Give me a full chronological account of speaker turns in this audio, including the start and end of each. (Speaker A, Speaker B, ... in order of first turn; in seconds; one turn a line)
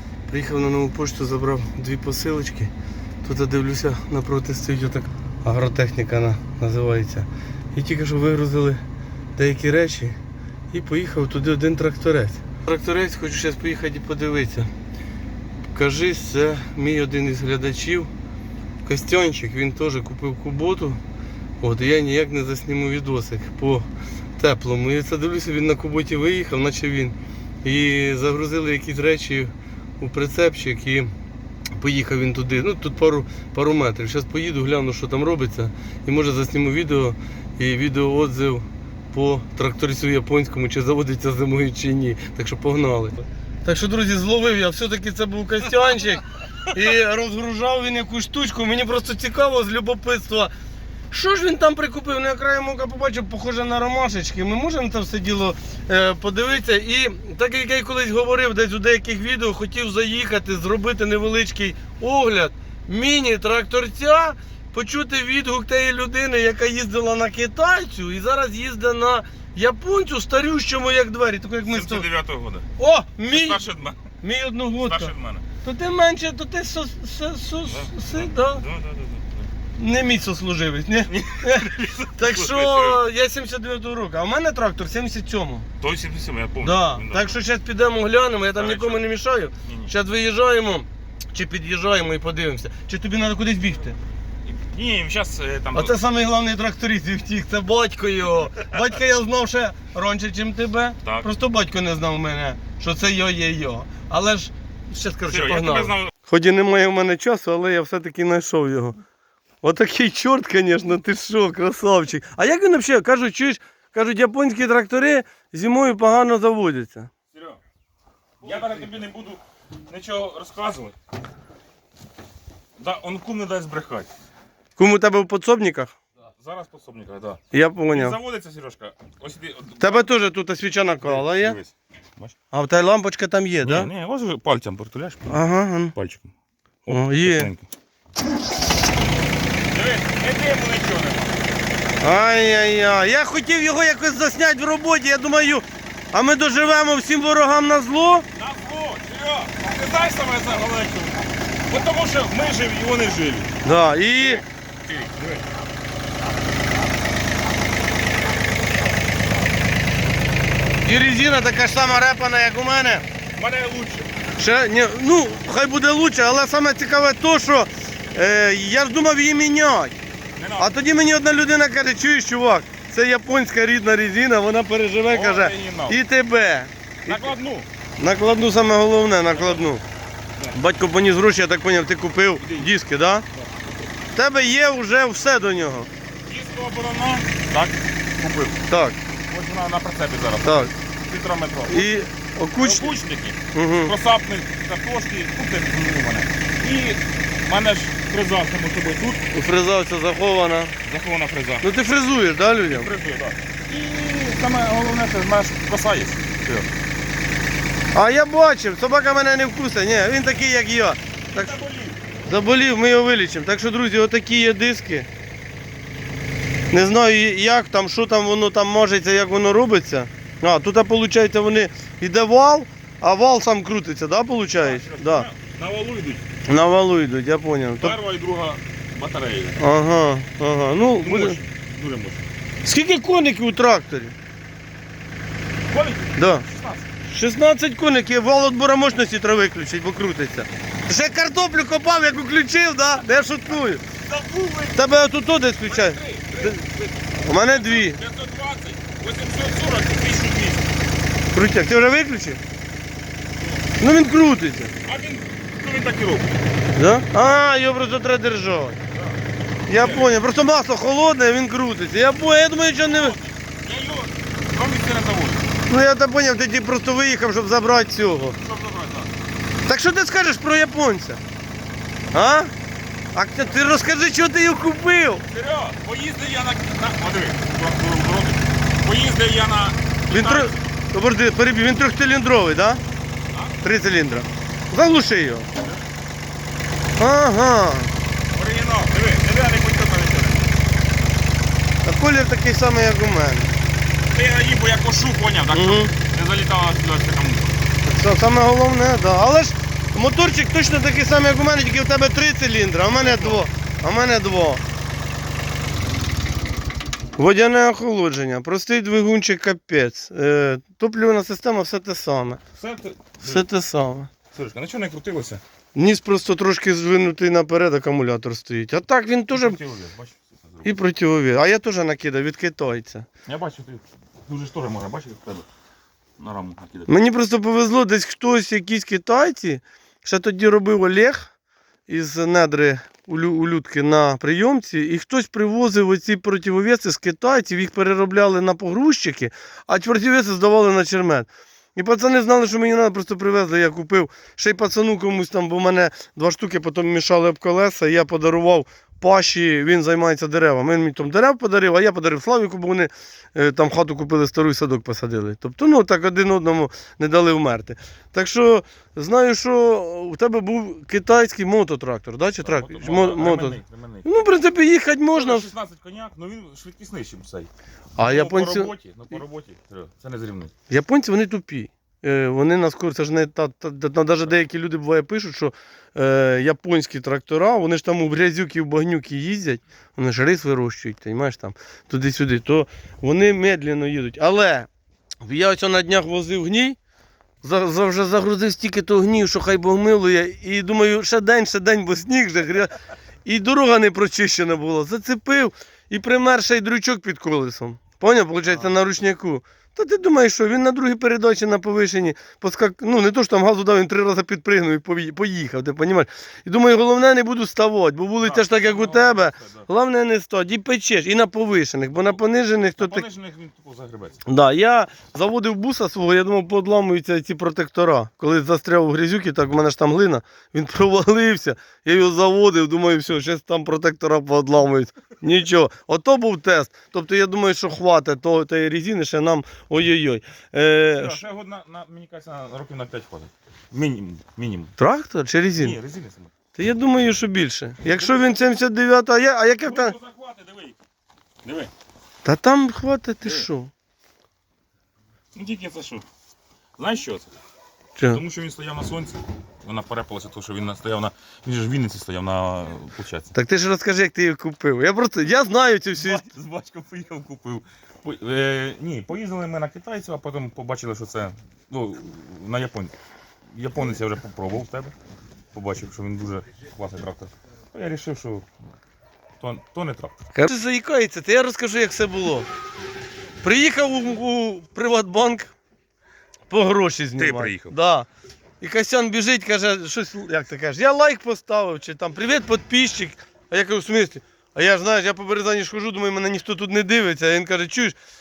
Speaker A: 0.3-2.7
Speaker A: 3.2-8.8
Speaker A: 9.3-10.2
Speaker A: 10.7-14.7
Speaker A: 15.7-18.1
Speaker A: 18.8-21.0
Speaker A: 21.6-31.1
Speaker A: 31.7-50.5
Speaker A: 51.1-72.0
Speaker B: 71.7-72.7
Speaker A: 72.8-73.6
Speaker B: 73.3-74.0
Speaker A: 74.2-75.1
Speaker B: 74.8-75.4
Speaker A: 75.6-78.6
Speaker B: 77.7-79.5
Speaker A: 79.8-85.7
Speaker B: 81.1-83.0
Speaker B: 85.8-87.3
Speaker A: 86.6-94.0
Speaker B: 88.5-89.1
Speaker B: 89.6-89.9
Speaker B: 94.4-96.0
Speaker A: 95.7-109.0
Speaker B: 105.3-106.1
Speaker A: 109.6-117.1
Speaker B: 117.3-117.6
Speaker B: 118.4-120.9
Speaker B: 122.8-124.1
Speaker A: 124.8-125.9
Speaker B: 126.4-130.1
Speaker A: 127.5-128.2
Speaker A: 129.8-131.6
Speaker B: 131.0-132.3
Speaker A: 132.5-133.9
Speaker B: 133.6-135.3
Speaker A: 135.3-135.9
Speaker B: 135.9-136.3
Speaker B: 136.8-137.7
Speaker A: 136.9-137.5
Speaker B: 139.7-141.3
Speaker A: 142.0-148.2
Speaker B: 148.3-153.5
Speaker A: 153.6-154.4
Speaker B: 154.2-155.4
Speaker A: 160.8-163.0
Speaker B: 163.3-164.1
Speaker A: 164.4-170.0
Speaker B: 170.3-170.8
Speaker A: 170.6-177.3
Speaker B: 175.1-176.0
Speaker B: 177.1-177.7
Speaker A: 178.0-179.8
Speaker B: 179.3-179.7
Speaker A: 180.5-183.2
Speaker B: 182.4-182.7
Speaker B: 183.3-183.6
Speaker A: 184.1-185.9
Speaker B: 186.2-188.6
Speaker A: 188.7-189.0
Speaker B: 189.3-191.9
Speaker A: 190.4-190.7
Speaker A: 191.7-192.9
Speaker B: 192.5-199.2
Speaker A: 193.5-193.9
Speaker A: 199.3-200.7
Speaker B: 200.8-201.7
Speaker A: 201.6-202.9
Speaker B: 202.7-206.7
Speaker A: 207.9-211.6
Speaker B: 211.3-212.0
Speaker A: 212.2-215.1
Speaker A: 216.7-225.3
Speaker B: 224.6-226.2
Speaker A: 226.5-227.9
Speaker B: 227.8-229.6
Speaker A: 229.6-231.4
Speaker B: 230.8-232.3
Speaker A: 232.6-234.1
Speaker B: 235.7-236.9
Speaker A: 236.2-236.4
Speaker A: 237.1-243.8
Speaker B: 243.9-244.8
Speaker A: 244.7-246.6
Speaker B: 245.7-250.7
Speaker A: 247.2-248.0
Speaker A: 251.3-252.4
Speaker A: 253.8-254.7
Speaker B: 254.8-256.3
Speaker A: 256.8-258.8
Speaker A: 259.7-263.1
Speaker B: 259.7-260.1
Speaker B: 262.8-265.5
Speaker A: 265.7-268.4
Speaker B: 268.4-269.1
Speaker A: 269.6-271.2
Speaker A: 272.1-272.5
Speaker A: 273.1-275.2
Speaker B: 275.3-280.7
Speaker A: 280.1-282.8
Speaker B: 283.3-283.6
Speaker A: 283.6-285.5
Speaker B: 285.6-285.8
Speaker A: 287.0-287.9
Speaker B: 288.3-290.5
Speaker A: 291.8-293.5
Speaker B: 294.1-297.6
Speaker A: 295.5-295.9
Speaker A: 297.8-304.6
Speaker B: 302.9-303.4
Speaker A: 307.1-312.4
Speaker B: 312.6-313.4
Speaker A: 313.2-314.1
Speaker B: 314.3-315.4
Speaker A: 315.7-319.6
Speaker B: 319.3-320.7
Speaker A: 320.6-323.1
Speaker B: 323.2-325.4
Speaker B: 326.2-326.9
Speaker A: 326.9-331.3
Speaker A: 331.9-365.5
Speaker B: 362.4-364.1
Speaker B: 365.1-370.5
Speaker A: 368.0-368.7
Speaker A: 370.7-384.7
Speaker A: 385.2-386.8
Speaker A: 387.4-392.7
Speaker A: 393.2-413.1
Speaker B: 408.2-409.7
Speaker B: 412.8-414.2
Speaker A: 414.2-431.2
Speaker B: 430.9-434.7
Speaker A: 434.8-435.8
Speaker B: 435.6-436.3
Speaker A: 436.5-439.9
Speaker B: 437.8-438.3
Speaker B: 439.6-440.8
Speaker B: 441.4-441.7
Speaker A: 442.2-443.7
Speaker B: 445.3-446.0
Speaker B: 446.8-447.3
Speaker B: 448.1-453.3
Speaker A: 453.3-456.3
Speaker B: 455.9-462.9
Speaker B: 463.5-464.9
Speaker B: 465.5-468.4
Speaker B: 469.4-470.2
Speaker A: 470.3-472.5
Speaker A: 473.4-475.5
Speaker A: 476.5-478.1
Speaker B: 477.1-477.7
Speaker A: 478.6-487.9